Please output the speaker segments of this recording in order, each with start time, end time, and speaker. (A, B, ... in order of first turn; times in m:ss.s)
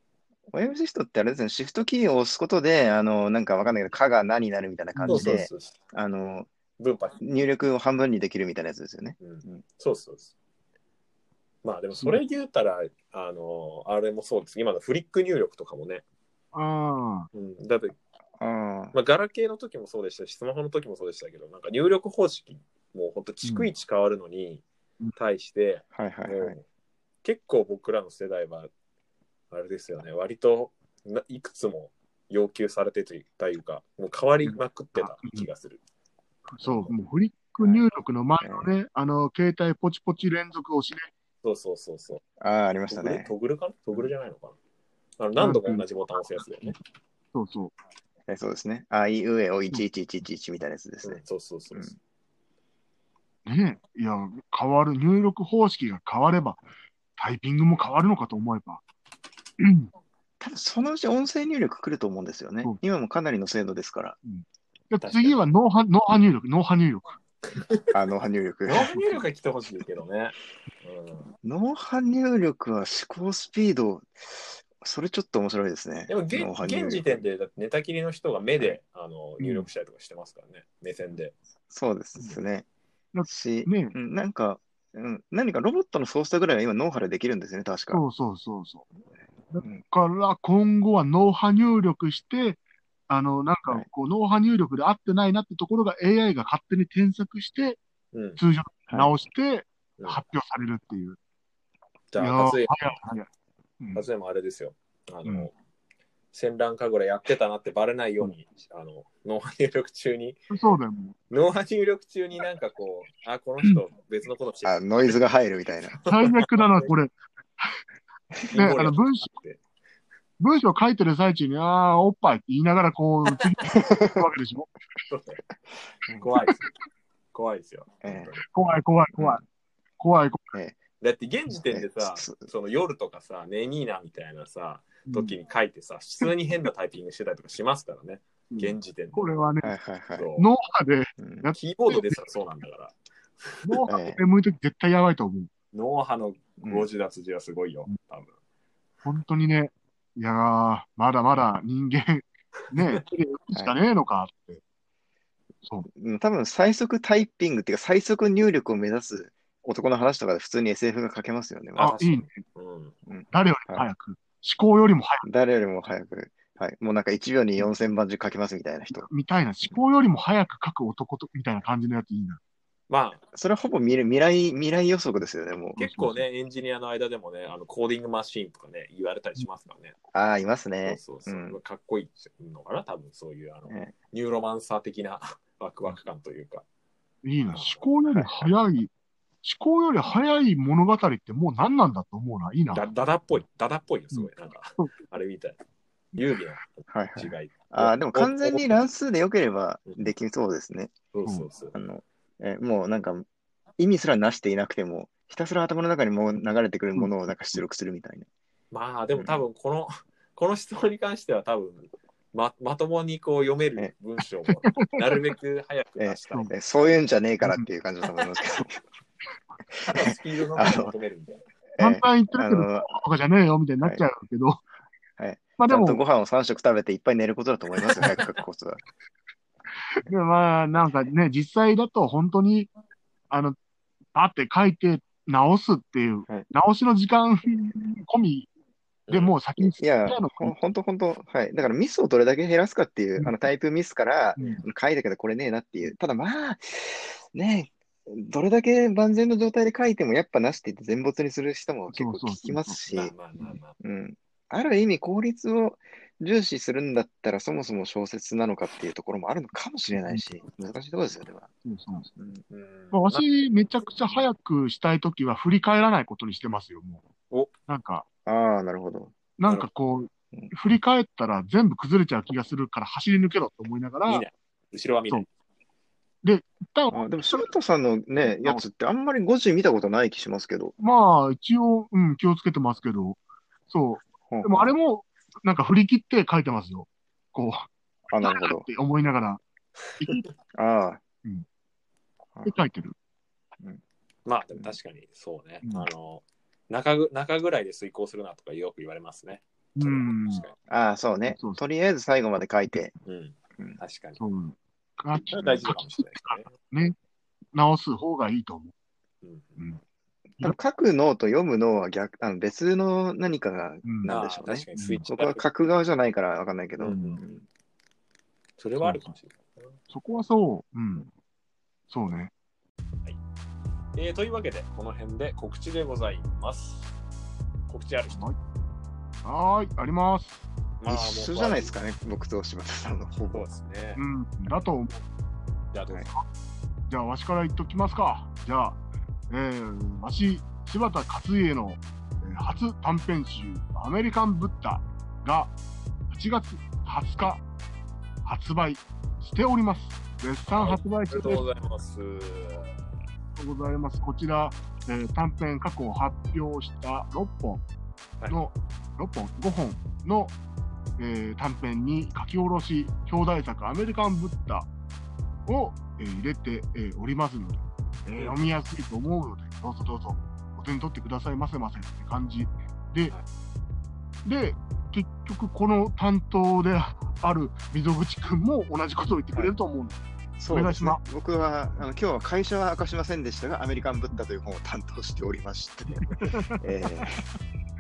0:00.5-0:06.5 A
0:05.0-0:05.4 B
0:05.1-0:05.8 C
0:06.8-0:07.2 C
0:07.2-0:09.6 A
0:09.2-0:10.3 C
0:11.6-0:16.0 C
0:11.9-0:12.2 B
0:16.5-0:17.3 B
0:17.3-0:18.0 C
0:18.4-0:19.0 A
0:18.9-0:24.6 C
0:25.2-0:26.6 C
0:26.0-0:26.6 A
0:27.2-0:28.7 C
0:29.5-0:35.8 C
0:34.4-0:35.5 B
0:36.6-0:41.1 B
0:36.6-0:36.9 A
0:38.4-0:38.7 A
0:41.4-0:42.2 C
0:42.4-0:43.3 A
0:42.9-0:44.6 C
0:45.2-0:46.8 C
0:45.4-0:45.9 B
0:47.3-0:47.8 B
0:48.3-0:51.2 A
0:51.0-0:52.0 C
0:53.5-0:56.6 B
0:57.2-0:58.8 B
0:59.6-0:59.9 B
1:00.4-1:04.2 A
1:04.2-1:07.1 B
1:05.0-1:05.4 C
1:07.5-1:07.8 C
1:07.9-1:09.2 A
1:08.7-1:11.3 C
1:11.4-1:17.2 A
1:16.1-1:21.4 C
1:19.4-1:19.7 B
1:21.7-1:22.7 A
1:23.1-1:24.0 B
1:23.3-1:28.0 A
1:27.9-1:28.9 B
1:29.5-1:37.8 B
1:38.1-1:38.4 C
1:38.4-1:41.2 B
1:42.1-1:42.7 C
1:42.2-1:43.3 B
1:43.8-1:44.1 B
1:44.0-1:45.5 C
1:46.3-1:50.4 C
1:50.5-1:51.2 B
1:51.3-1:55.2 C
1:54.6-1:56.0 A
1:56.0-1:56.9 C
1:56.1-1:57.1 B
1:58.5-1:59.6 C
1:58.6-1:59.3 B
2:00.4-2:04.7 B
2:03.7-2:04.1 A
2:05.1-2:05.4 C
2:06.2-2:06.6 C
2:07.3-2:08.5 C
2:08.0-2:08.3 A
2:08.4-2:09.4 B
2:09.2-2:09.4 A
2:10.0-2:10.5 B
2:10.5-2:10.8 A
2:11.0-2:19.2 C
2:11.6-2:12.4 A
2:15.1-2:15.4 B
2:18.5-2:19.7 B
2:19.6-2:20.3 A
2:20.1-2:20.5 C
2:20.4-2:22.2 B
2:21.2-2:21.5 A
2:21.6-2:23.8 C
2:23.6-2:25.5 B
2:23.9-2:24.2 A
2:25.7-2:28.4 C
2:26.6-2:26.9 A
2:29.0-2:34.6 B
2:35.9-2:42.0 A
2:41.8-2:43.0 C
2:42.0-2:42.4 B
2:43.1-2:43.9 A
2:43.3-2:45.2 B
2:45.2-2:49.1 A
2:49.0-2:52.4 B
2:52.9-2:53.2 C
2:53.3-2:55.8 A
2:55.8-2:56.2 B
2:55.8-3:00.0 C
3:00.1-3:01.6 A
3:00.8-3:06.6 C
3:03.7-3:03.9 A
3:07.2-3:08.9 B
3:07.5-3:07.8 C
3:09.4-3:12.8 B
3:12.7-3:15.6 C
3:14.1-3:14.9 B
3:16.1-3:18.8 C
3:16.9-3:20.9 A
3:21.1-3:21.8 C
3:21.7-3:23.2 A
3:23.8-3:28.3 A
3:28.7-3:36.6 C
3:29.2-3:29.4 A
3:34.6-3:34.9 B
3:36.0-3:38.8 A
3:39.8-3:40.9 A
3:39.9-3:41.4 C
3:41.8-3:43.0 A
3:41.8-3:44.6 B
3:45.2-3:48.8 A
3:45.6-3:46.0 B
3:49.8-3:52.7 B
3:53.3-3:53.6 B
3:54.1-3:58.5 B
3:59.1-3:59.3 C
3:59.1-4:00.5 B
3:59.6-4:13.1 A
4:11.9-4:12.8 B
4:12.9-4:13.8 C
4:13.8-4:21.5 A
4:19.9-4:20.2 B
4:21.6-4:22.1 B
4:22.1-4:22.4 A
4:22.5-4:23.3 C
4:22.9-4:27.0 B
4:27.7-4:28.1 B
4:28.3-4:29.2 A
4:29.4-4:34.2 B
4:34.1-4:35.3 C
4:36.2-4:37.5 B
4:36.9-4:40.7 A
4:38.2-4:38.6 B
4:40.8-4:49.4 B
4:44.3-4:44.7 A
4:48.1-4:48.6 A
4:50.5-4:51.0 A
4:52.4-4:53.0 B
4:54.3-5:00.6 C
4:55.6-4:55.9 B
4:59.8-5:00.5 B
5:00.7-5:02.9 A
5:01.3-5:01.6 B
5:03.1-5:04.2 C
5:04.2-5:07.0 B
5:05.2-5:06.6 C
5:05.4-5:05.7 A
5:07.5-5:08.7 B
5:09.2-5:09.6 C
5:10.4-5:17.4 A
5:13.8-5:14.2 B
5:14.0-5:15.5 C
5:14.8-5:15.1 B
5:16.8-5:17.3 C
5:18.6-5:19.7 C
5:18.8-5:19.1 B
5:19.9-5:21.1 B
5:21.9-5:22.3 B
5:24.0-5:26.9 C
5:27.7-5:28.3 C
5:28.1-5:28.4 B
5:29.2-5:30.4 B
5:30.8-5:31.7 C
5:30.9-5:33.4 A
5:33.3-5:34.0 C
5:34.0-5:35.0 B
5:35.7-5:36.1 C
5:36.9-5:38.8 B
5:39.3-5:45.5 B
5:46.1-5:47.4 B
5:48.2-5:51.4 B
5:50.5-5:52.8 C
5:53.4-5:57.6 B
5:58.3-6:00.3 B
6:01.0-6:04.7 B
6:05.5-6:07.6 B
6:08.1-6:08.3 C
6:08.2-6:13.1 B
6:14.2-6:20.0 B
6:20.4-6:27.2 A
6:20.5-6:21.0 B
6:26.0-6:27.1 B